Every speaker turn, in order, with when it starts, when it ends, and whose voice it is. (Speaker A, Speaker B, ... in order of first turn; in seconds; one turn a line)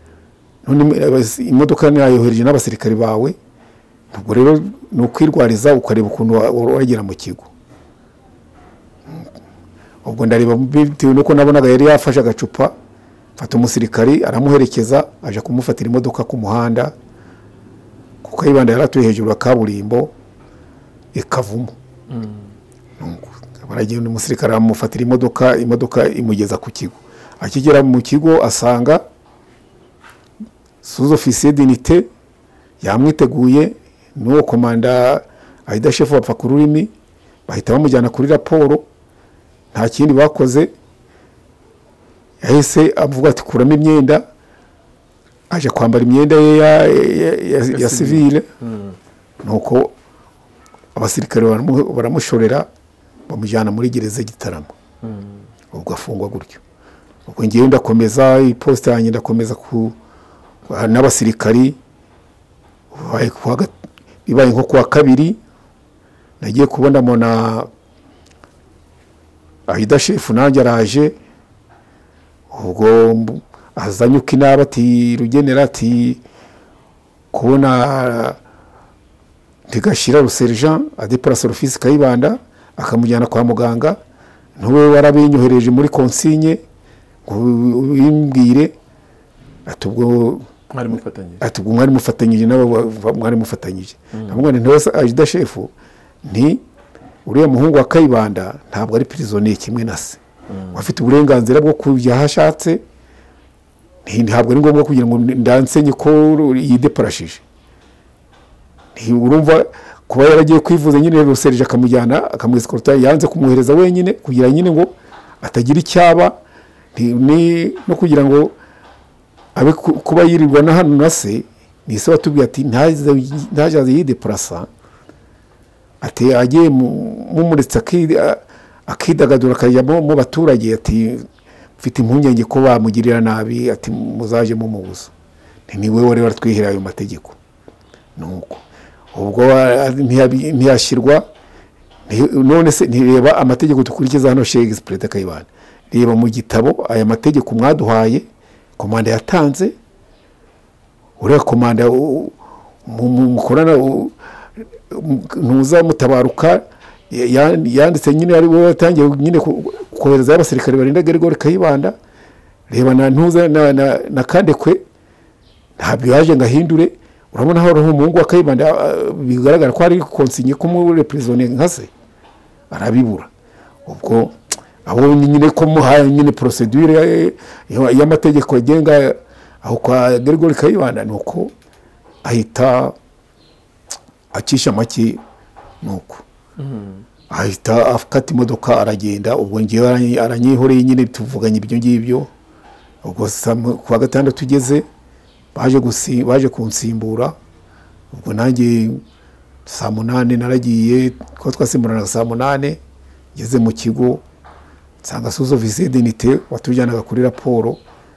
Speaker A: 0.6-3.4
Speaker A: 4.1-7.5
Speaker A: 10.0-12.7
Speaker A: 13.4-16.9
Speaker A: 18.2-20.1
Speaker A: 21.1-21.7
Speaker B: 22.1-22.4
Speaker A: 23.0-29.0
Speaker A: 30.8-32.0
Speaker A: 32.8-36.9
Speaker A: 37.5-38.9
Speaker A: 39.7-40.7
Speaker A: 42.4-44.2
Speaker A: 45.5-48.5
Speaker B: 47.7-49.0
Speaker A: 49.4-49.9
Speaker A: 50.9-52.7
Speaker A: 53.3-54.7
Speaker B: 55.0-55.4
Speaker A: 55.7-56.6
Speaker A: 57.2-59.9
Speaker A: 60.7-61.8
Speaker A: 62.9-63.7
Speaker A: 64.2-65.4
Speaker A: 66.4-67.7
Speaker A: 69.7-71.1
Speaker A: 72.5-76.2
Speaker A: 77.3-78.4
Speaker A: 79.7-84.0
Speaker A: 84.6-86.6
Speaker A: 87.2-88.7
Speaker A: 89.7-90.5
Speaker B: 90.7-91.4
Speaker A: 91.4-95.7
Speaker B: 94.1-94.4
Speaker A: 96.2-96.6
Speaker A: 97.2-100.2
Speaker B: 100.5-100.8
Speaker A: 100.7-102.8
Speaker A: 104.0-107.4
Speaker A: 108.9-116.3
Speaker A: 116.9-118.5
Speaker A: 119.5-124.7
Speaker A: 126.0-131.2
Speaker A: 131.8-135.1
Speaker A: 135.7-137.4
Speaker A: 138.2-138.6
Speaker A: 139.1-141.2
Speaker A: 142.1-148.2
Speaker A: 148.8-149.7
Speaker A: 151.2-152.3
Speaker A: 152.8-154.1
Speaker A: 154.9-161.9
Speaker A: 162.7-164.8
Speaker A: 165.8-171.9
Speaker A: 172.7-173.3
Speaker A: 173.8-181.5
Speaker A: 182.2-182.9
Speaker A: 184.3-185.2
Speaker A: 185.8-186.2
Speaker B: 186.6-187.0
Speaker A: 187.3-192.3
Speaker A: 193.0-194.8
Speaker A: 195.5-197.3
Speaker A: 198.1-199.0
Speaker A: 199.7-202.8
Speaker A: 203.3-204.2
Speaker A: 205.0-207.8